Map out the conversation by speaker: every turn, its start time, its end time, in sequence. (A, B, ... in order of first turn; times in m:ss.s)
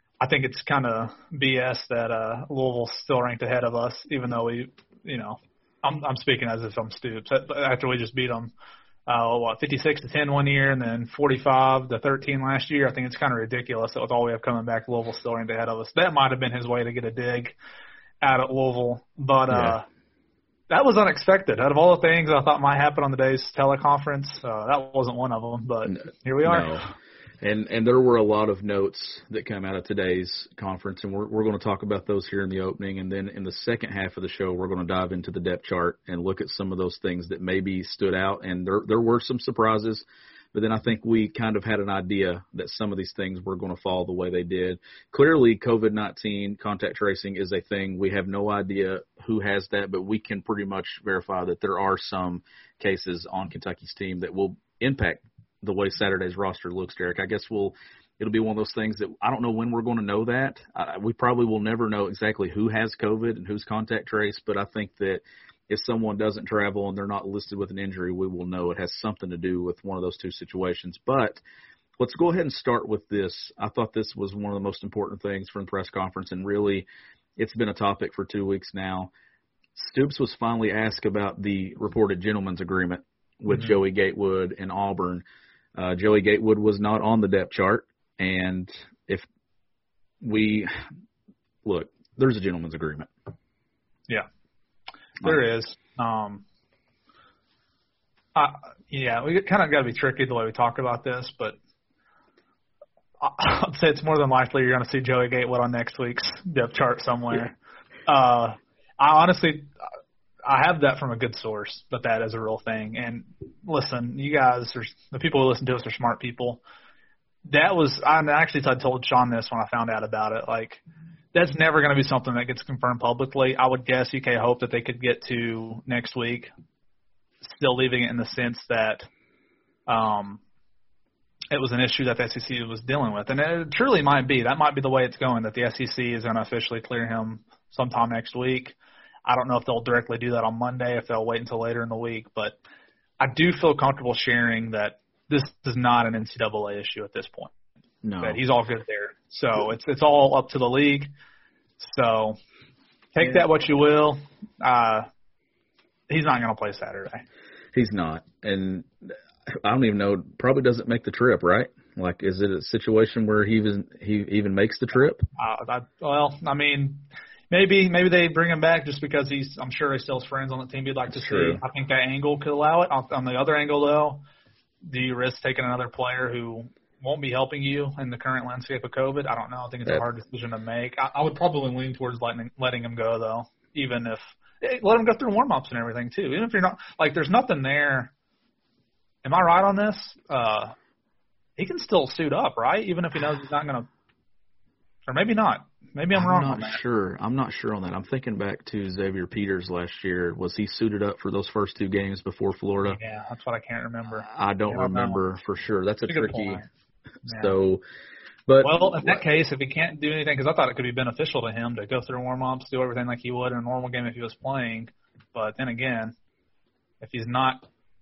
0:00.2-0:08.5 A
0:09.1-0:17.6 A
0:18.2-0:19.9 A
0:19.5-0:19.8 B
0:20.7-0:26.9 A
0:25.9-0:26.8 B
0:27.4-1:11.4 B
1:12.0-1:19.1 B
1:19.8-1:25.2 B
1:23.5-1:23.8 A
1:25.8-1:29.2 B
1:30.2-1:30.7 B
1:31.6-1:33.1 B
1:35.2-1:36.4 A
1:38.4-1:41.6 A
1:43.2-1:47.6 A
1:48.1-1:49.7 A
1:50.4-1:56.6 A
1:57.5-2:00.8 A
2:01.3-2:06.5 A
2:07.4-2:09.1 A
2:09.9-2:10.4 A
2:11.5-2:22.6 A
2:23.2-2:27.5 A
2:28.0-2:28.4 B
2:28.2-2:31.1 A
2:31.8-2:32.4 A
2:33.2-2:35.1 A
2:36.1-2:37.2 A
2:37.7-2:45.2 B
2:45.4-2:54.2 A
2:51.1-2:51.6 B
2:54.8-3:08.1 A
3:09.2-3:10.8 A
3:11.6-3:13.9 A
3:15.1-3:16.8 A
3:16.1-3:23.0 B
3:22.8-3:25.2 A
3:24.2-3:26.6 B
3:26.1-3:26.6 A
3:27.3-3:27.6 A
3:27.3-3:27.8 B
3:28.5-3:29.2 B
3:28.6-3:36.2 A
3:37.0-3:37.7 A